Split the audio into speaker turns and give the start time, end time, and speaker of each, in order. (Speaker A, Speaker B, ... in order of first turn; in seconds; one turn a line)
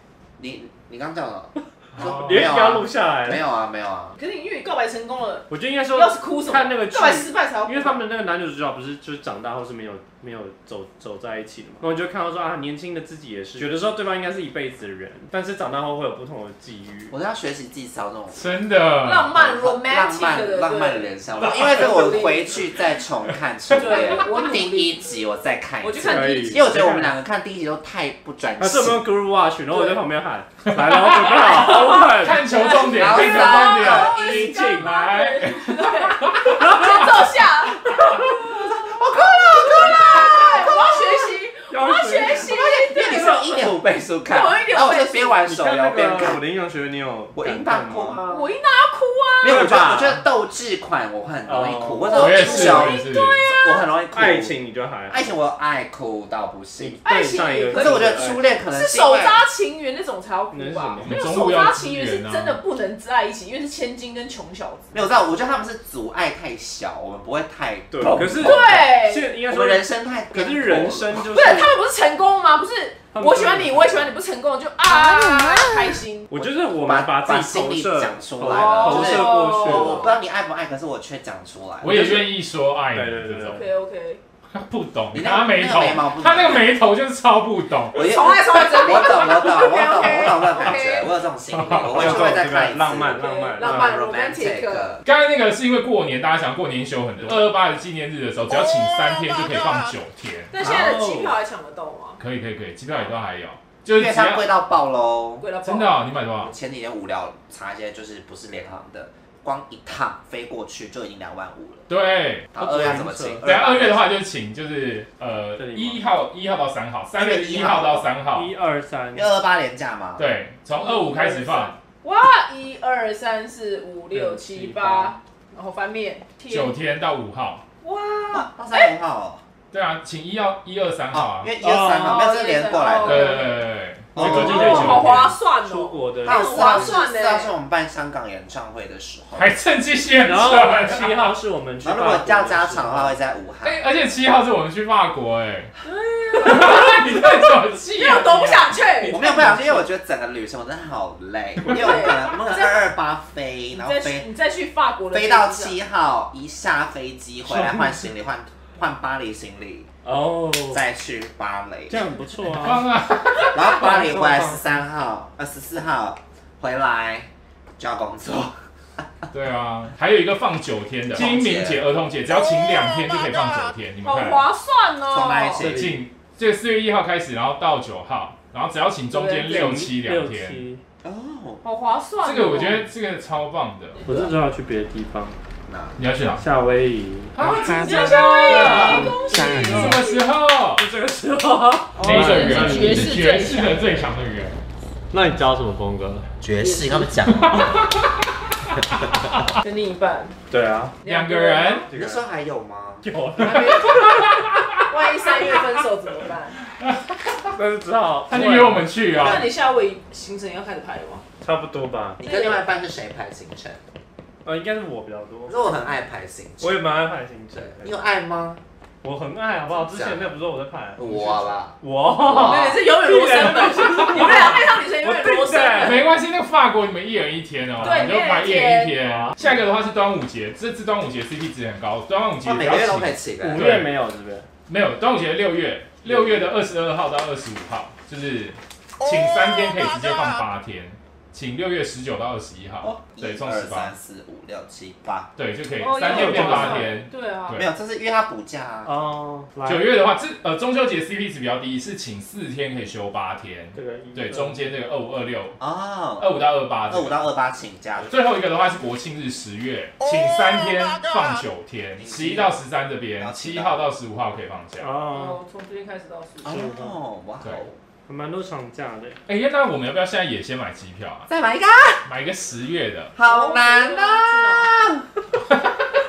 Speaker A: 0.4-4.2
Speaker B: 1.9-2.5
Speaker C: 2.2-3.4
Speaker D: 4.2-8.0
Speaker C: 5.5-17.1
Speaker A: 17.1-18.5
Speaker B: 18.3-19.3
Speaker D: 19.0-22.7
Speaker A: 19.3-29.0
Speaker B: 21.4-21.9
Speaker D: 23.7-25.2
Speaker D: 25.8-26.7
Speaker C: 26.0-27.1
Speaker C: 28.6-32.5
Speaker D: 29.7-30.1
Speaker B: 30.6-36.9
Speaker D: 32.6-43.8
Speaker A: 32.7-34.8
Speaker C: 34.4-34.9
Speaker C: 36.5-36.9
Speaker A: 38.6-41.2
Speaker C: 41.7-42.5
Speaker A: 42.3-46.4
Speaker D: 44.3-45.4
Speaker C: 45.4-48.2
Speaker A: 47.3-48.5
Speaker D: 48.3-49.5
Speaker A: 49.4-54.5
Speaker C: 49.4-50.2
Speaker C: 51.4-52.8
Speaker D: 52.0-53.9
Speaker B: 52.1-53.4
Speaker C: 54.1-55.3
Speaker A: 55.1-57.0
Speaker C: 56.8-58.4
Speaker D: 57.0-65.1
Speaker A: 57.7-59.4
Speaker C: 60.5-61.2
Speaker B: 61.0-62.6
Speaker A: 64.9-68.8
Speaker C: 67.9-71.7
Speaker D: 68.3-69.3
Speaker A: 69.5-71.1
Speaker D: 71.3-76.5
Speaker C: 73.1-74.2
Speaker C: 76.3-80.1
Speaker A: 76.8-82.0
Speaker D: 78.4-80.1
Speaker B: 81.8-83.6
Speaker C: 81.8-82.3
Speaker C: 82.9-83.6
Speaker D: 83.5-84.2
Speaker B: 84.5-88.1
Speaker A: 85.1-86.8
Speaker D: 87.9-91.1
Speaker A: 87.9-95.0
Speaker B: 91.5-92.2
Speaker C: 91.9-94.0
Speaker D: 93.0-95.0
Speaker B: 95.0-100.6
Speaker D: 100.5-102.2
Speaker A: 100.6-100.9
Speaker C: 100.6-101.4
Speaker B: 102.2-104.5
Speaker A: 103.9-105.5
Speaker D: 105.4-106.1
Speaker B: 105.6-106.5
Speaker A: 106.3-111.9
Speaker B: 111.9-112.5
Speaker A: 112.5-113.4
Speaker C: 112.6-114.1
Speaker B: 113.4-118.5
Speaker C: 115.6-116.0
Speaker A: 117.2-118.1
Speaker C: 118.3-119.3
Speaker A: 119.1-120.3
Speaker B: 120.2-121.8
Speaker D: 120.8-126.8
Speaker C: 124.1-125.1
Speaker B: 126.5-127.6
Speaker D: 127.8-128.9
Speaker A: 128.3-129.4
Speaker B: 129.7-131.5
Speaker A: 131.1-133.5
Speaker C: 131.6-132.2
Speaker D: 132.0-133.6
Speaker B: 133.0-135.3
Speaker A: 134.1-135.1
Speaker C: 134.2-136.9
Speaker D: 134.2-137.5
Speaker A: 136.2-139.5
Speaker B: 139.3-141.3
Speaker C: 140.2-143.2
Speaker A: 141.8-143.8
Speaker B: 143.6-145.7
Speaker D: 145.8-149.2
Speaker B: 146.3-149.8
Speaker A: 149.1-154.3
Speaker C: 151.7-152.0
Speaker D: 151.7-152.8
Speaker D: 153.7-155.8
Speaker A: 155.1-159.9
Speaker C: 157.4-158.1
Speaker C: 160.0-160.8
Speaker A: 160.7-162.0
Speaker C: 161.9-162.8
Speaker B: 162.5-163.6
Speaker A: 163.3-167.3
Speaker C: 163.7-164.6
Speaker A: 167.8-169.0
Speaker B: 169.3-174.4
Speaker A: 171.1-171.8
Speaker D: 174.0-175.7
Speaker A: 175.1-175.9
Speaker C: 175.6-176.0
Speaker B: 175.6-180.6
Speaker D: 179.1-179.5
Speaker C: 179.4-180.8
Speaker A: 181.0-181.6
Speaker D: 181.6-182.8
Speaker B: 182.2-184.0
Speaker D: 184.0-184.3
Speaker C: 184.0-185.3
Speaker A: 185.7-186.0
Speaker B: 186.0-186.4
Speaker C: 186.3-187.3
Speaker B: 187.3-190.8
Speaker A: 187.4-190.0
Speaker D: 187.4-190.2
Speaker C: 187.9-190.0
Speaker C: 190.8-193.2
Speaker B: 192.0-194.6
Speaker D: 192.1-193.9
Speaker C: 195.1-196.3
Speaker A: 196.4-197.7
Speaker D: 196.6-197.1
Speaker B: 197.3-198.0
Speaker B: 199.0-199.4
Speaker D: 199.6-200.3
Speaker C: 200.5-201.0
Speaker D: 201.0-201.9
Speaker B: 201.0-201.8
Speaker C: 201.9-202.2
Speaker A: 201.9-203.1
Speaker C: 203.0-204.0
Speaker D: 203.4-206.6
Speaker B: 203.7-204.8
Speaker C: 207.5-209.0
Speaker B: 208.3-209.5
Speaker A: 209.1-209.5
Speaker D: 209.2-211.2
Speaker C: 211.4-212.2
Speaker A: 212.2-213.8
Speaker D: 212.2-212.7
Speaker C: 214.4-215.8
Speaker A: 215.5-216.8
Speaker C: 216.6-218.0
Speaker A: 217.5-218.6
Speaker C: 219.0-226.1
Speaker A: 219.8-220.3
Speaker A: 220.9-222.7
Speaker D: 222.3-226.0
Speaker B: 223.9-224.2
Speaker B: 225.8-233.9
Speaker D: 227.8-229.0
Speaker C: 229.0-229.6
Speaker A: 232.4-233.6
Speaker C: 233.4-234.5
Speaker B: 234.7-243.9
Speaker C: 236.0-236.5
Speaker A: 242.8-245.3
Speaker B: 245.3-247.7
Speaker D: 245.8-247.6
Speaker C: 246.0-246.9
Speaker A: 247.5-248.9
Speaker C: 248.8-249.9
Speaker B: 249.6-255.6
Speaker C: 253.7-254.8
Speaker A: 255.6-256.4
Speaker B: 256.2-257.2
Speaker A: 256.9-258.2
Speaker B: 258.1-264.9
Speaker A: 261.9-262.6
Speaker A: 263.2-263.9
Speaker C: 264.8-265.4
Speaker D: 265.1-266.5
Speaker A: 266.4-267.8
Speaker C: 266.4-267.0
Speaker C: 268.1-269.2
Speaker B: 269.3-271.3
Speaker A: 271.3-272.1
Speaker B: 272.0-273.1
Speaker A: 273.1-275.2
Speaker D: 273.2-274.7